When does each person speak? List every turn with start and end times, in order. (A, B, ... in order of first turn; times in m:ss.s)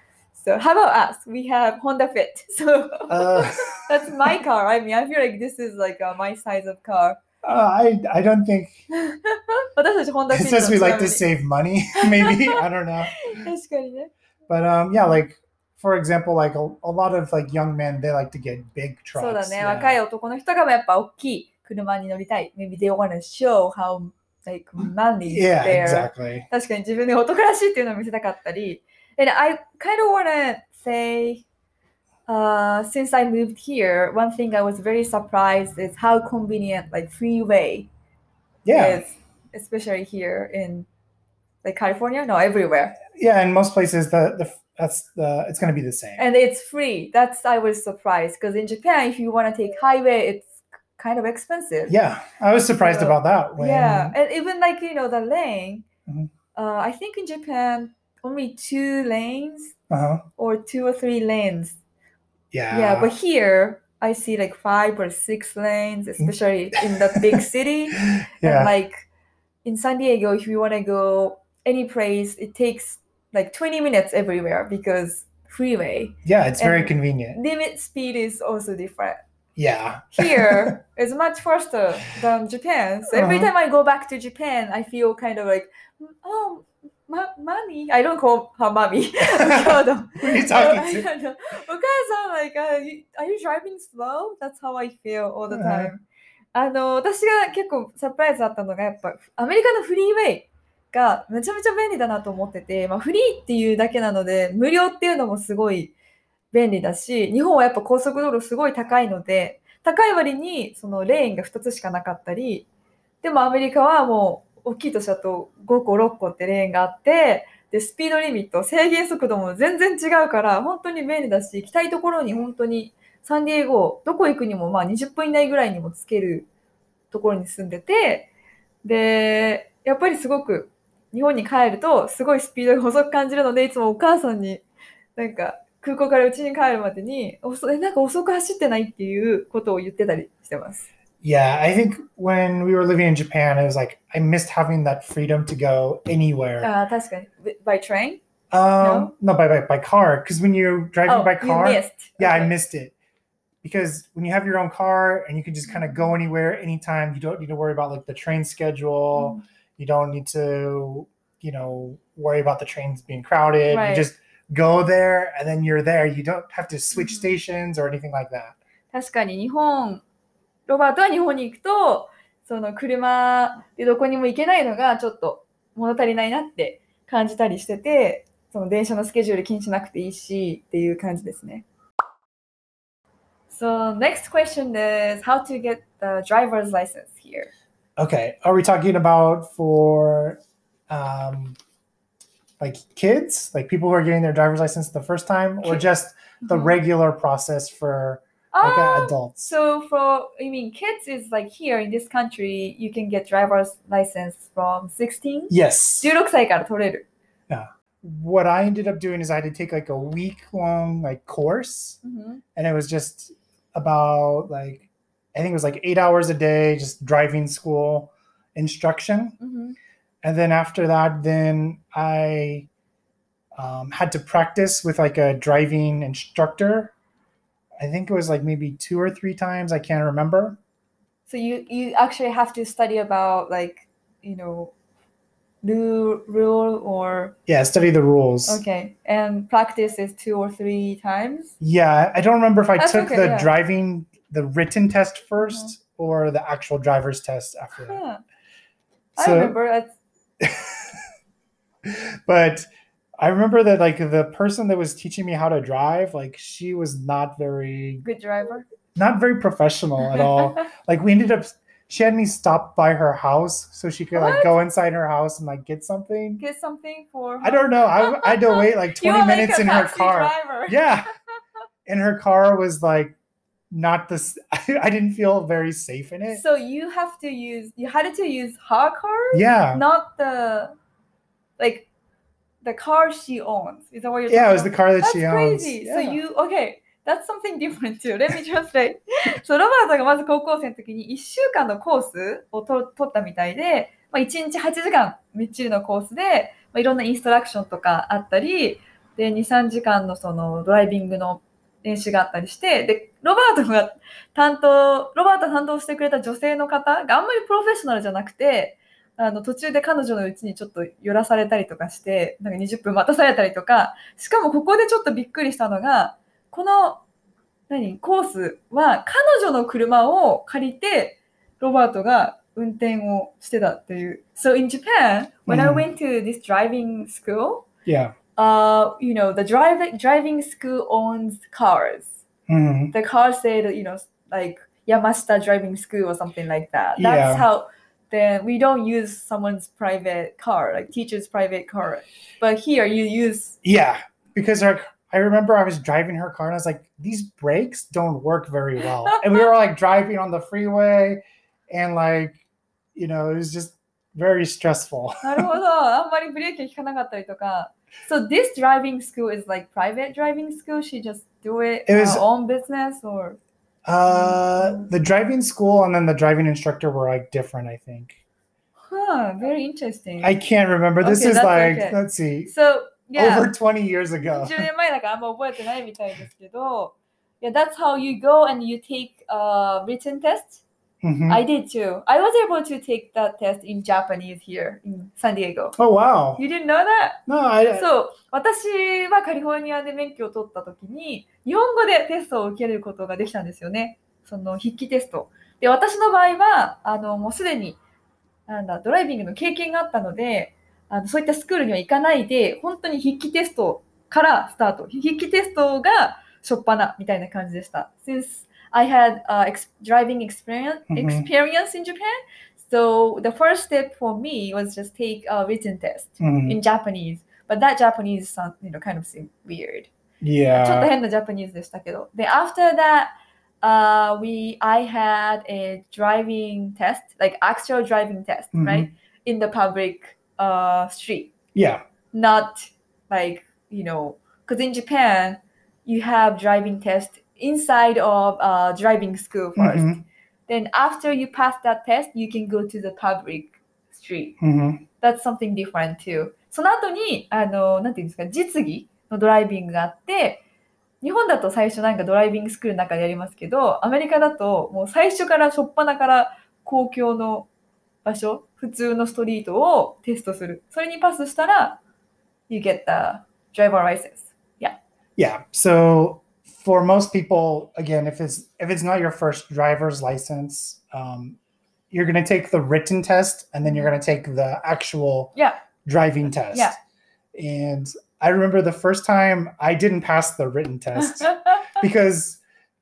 0:00.3-0:07.2 A
0:03.1-0:03.7 B
0:07.4-0:08.8 B
0:08.9-0:11.2 A
0:10.3-0:13.2 B
0:12.0-0:12.6 A
0:13.2-0:14.1 A
0:14.5-0:20.0 B
0:19.1-0:31.4 A
0:25.3-0:26.4 B
0:32.3-0:37.9 A
0:38.6-0:39.0 B
0:38.7-0:40.9 A
0:41.6-0:43.0 A
0:43.1-0:46.2 B
0:46.2-0:51.9 A
0:51.9-0:54.1 B
0:52.8-0:55.8 A
0:56.5-0:59.8 A
0:59.9-1:00.2 B
1:00.4-1:01.8 A
1:02.5-1:03.1 B
1:02.7-1:09.0 A
1:08.0-1:08.7 B
1:09.6-1:19.2 A
1:16.2-1:17.4 B
1:19.6-1:20.8 B
1:20.1-1:36.0 A
1:23.1-1:23.5 B
1:29.2-1:31.1 B
1:35.5-1:35.9 B
1:36.5-1:45.9 A
1:46.5-1:52.6 A
1:53.2-2:06.4 A
2:07.1-2:08.3 A
2:08.8-2:14.6 A
2:15.2-2:20.9 A
2:21.2-2:26.7 B
2:26.6-2:28.2 A
2:28.5-2:32.9 B
2:28.8-2:29.1 A
2:31.0-2:32.5 A
2:33.6-2:48.6 B
2:35.6-2:36.1 A
2:39.1-2:39.4 A
2:43.6-2:44.1 A
2:46.9-2:47.3 A
2:48.9-2:50.0 A
2:50.7-3:01.6 A
3:03.5-3:07.5 A
3:08.0-3:11.6 B
3:12.6-3:19.5 B
3:16.4-3:16.8 A
3:18.5-3:27.0 A
3:25.5-3:26.1 B
3:27.5-3:32.0 B
3:32.0-3:32.4 A
3:32.5-3:39.4 B
3:39.4-3:39.8 A
3:40.2-3:42.7 B
3:43.6-3:46.9 B
3:47.8-3:50.6 B
3:51.3-3:54.7 A
3:55.6-3:57.3 A
3:57.5-3:58.6 B
3:58.5-4:01.6 A
4:01.6-4:08.0 B
4:02.8-4:03.5 A
4:05.5-4:05.7 A
4:07.8-4:08.2 A
4:09.2-4:09.5 B
4:09.2-4:09.9 A
4:10.4-4:11.0 B
4:11.8-4:12.6 B
4:13.2-4:18.0 B
4:18.0-4:18.6 A
4:18.9-4:26.4 B
4:20.2-4:20.6 A
4:24.1-4:24.5 A
4:26.4-4:30.9 A
4:27.4-4:31.1 B
4:31.8-4:33.1 B
4:33.7-4:36.4 B
4:36.3-4:40.7 A
4:39.3-4:39.8 B
4:41.6-4:41.9 A
4:42.6-5:17.0 A
4:44.3-4:46.2 B
5:17.7-5:27.6 A
5:25.5-5:25.8 B
5:27.8-5:28.1 B
5:28.4-5:32.2 A
5:32.5-5:32.9 B
5:32.9-5:43.6 A
5:37.0-5:37.4 B
5:43.6-5:52.4 B
5:49.1-5:49.4 A
5:52.9-5:55.5 B
5:55.2-6:03.4 A
6:01.9-6:02.2 B
6:03.8-6:08.2 B
6:04.1-6:04.9 A
6:08.9-6:10.3 A
6:10.2-6:12.5 B
6:11.0-6:13.5 A
6:13.1-6:14.7 B
6:14.2-6:20.6 A
6:21.0-6:21.4 B
6:21.3-6:25.8 A
6:25.8-6:26.4 B
6:26.4-6:37.8 A
6:27.3-6:27.8 B
6:38.5-6:59.9 A
6:50.9-6:51.3 B
6:56.2-6:56.6 B
7:00.2-7:00.9 B
7:00.5-7:11.3 A
7:08.5-7:08.9 B
7:11.5-7:11.8 B
7:12.1-7:24.4 A
7:19.6-7:20.0 B
7:24.4-7:24.8 B
7:25.0-7:30.4 A
7:31.0-7:37.5 A
7:38.0-7:41.8 A
7:42.5-7:44.8 A
7:45.2-7:51.4 B
7:51.9-7:55.3 B
7:53.6-7:53.9 A
7:55.8-7:56.8 B
7:56.5-7:56.8 A
7:57.3-8:02.4 B
8:01.0-8:01.6 A